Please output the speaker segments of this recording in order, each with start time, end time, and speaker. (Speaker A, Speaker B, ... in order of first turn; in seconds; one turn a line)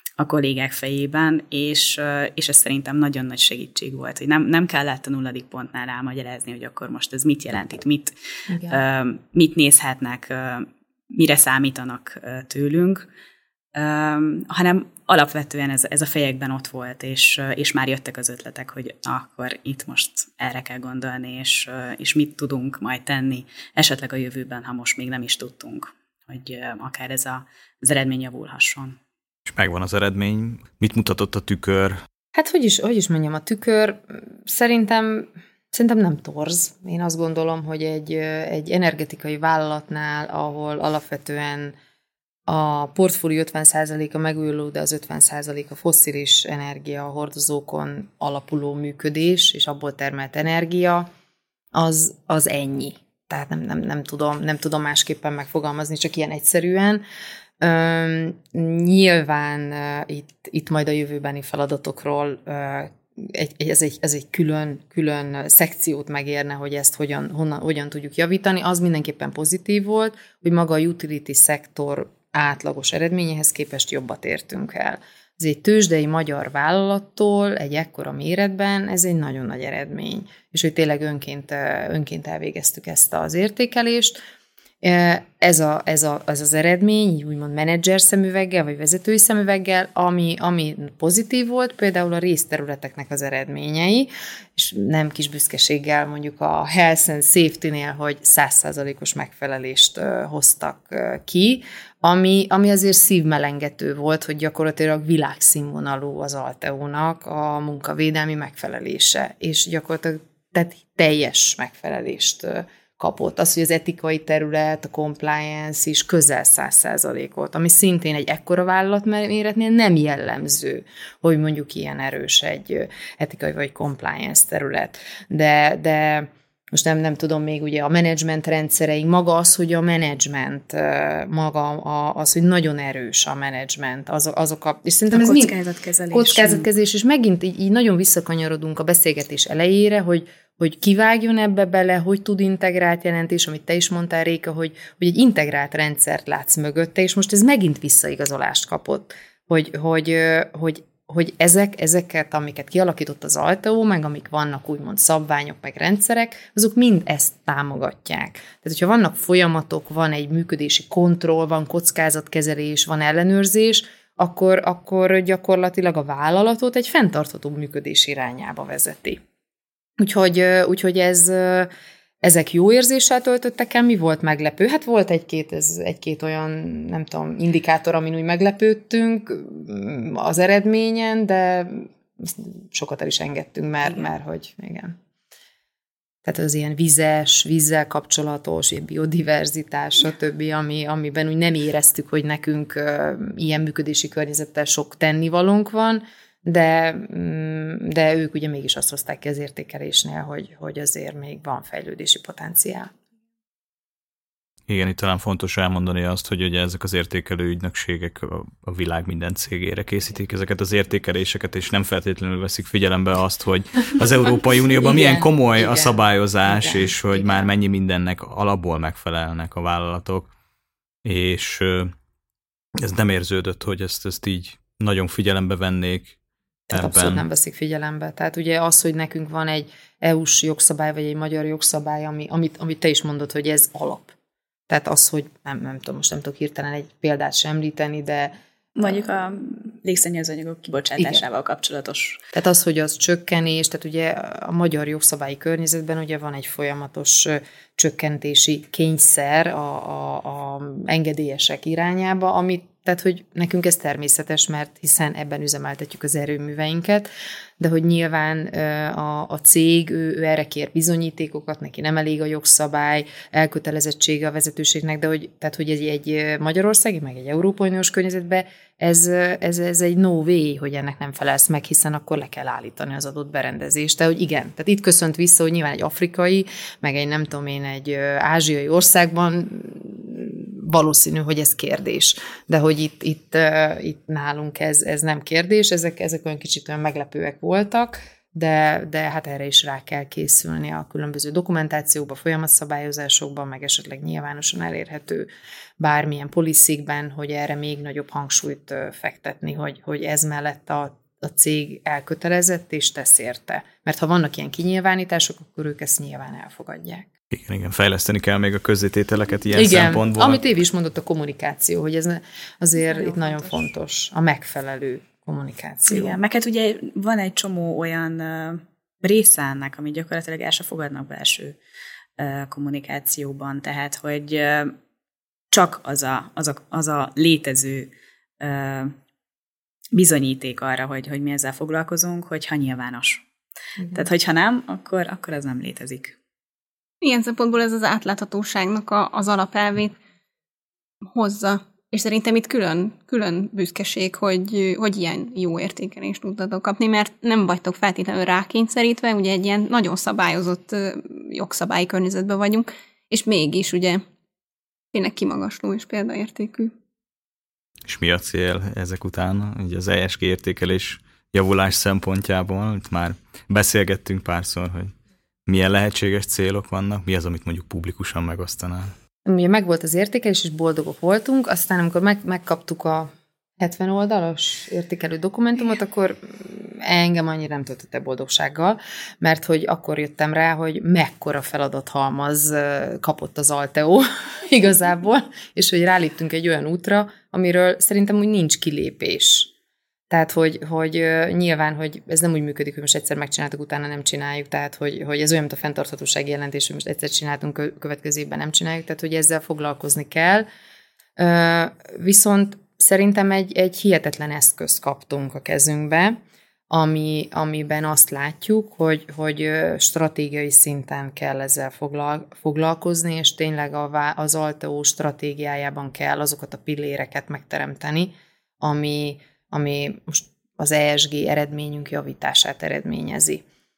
Speaker A: 0.2-13.1
Speaker B: 8.5-8.8
Speaker A: 13.7-29.0
Speaker C: 29.4-32.0
Speaker B: 32.3-41.7
Speaker B: 42.5-51.1
Speaker B: 51.7-57.0
Speaker B: 57.6-84.2
Speaker B: 84.8-135.5
Speaker A: 135.1-136.7
Speaker B: 136.1-169.2
Speaker B: 170.0-171.7
Speaker B: 172.2-184.9
Speaker B: 186.2-202.9
Speaker C: 204.7-220.3
Speaker B: 214.8-217.5
Speaker C: 221.0-221.9
Speaker C: 222.8-226.2
Speaker B: 226.7-234.1
Speaker C: 226.7-227.2
Speaker B: 234.7-238.3
Speaker A: 238.8-242.2
Speaker B: 241.0-241.2
Speaker B: 242.3-295.3
Speaker B: 295.8-307.1
Speaker C: 307.3-310.4
Speaker B: 309.5-316.2
Speaker A: 315.9-321.6
Speaker A: 322.2-324.7
Speaker A: 325.5-328.9
Speaker A: 329.9-333.2
Speaker A: 333.9-336.2
Speaker D: 337.0-340.0
Speaker D: 341.1-354.0
Speaker D: 354.9-356.7
Speaker C: 357.9-364.9
Speaker C: 365.5-368.9
Speaker B: 369.2-389.5
Speaker B: 390.1-400.4
Speaker B: 401.2-406.2
Speaker B: 406.7-423.4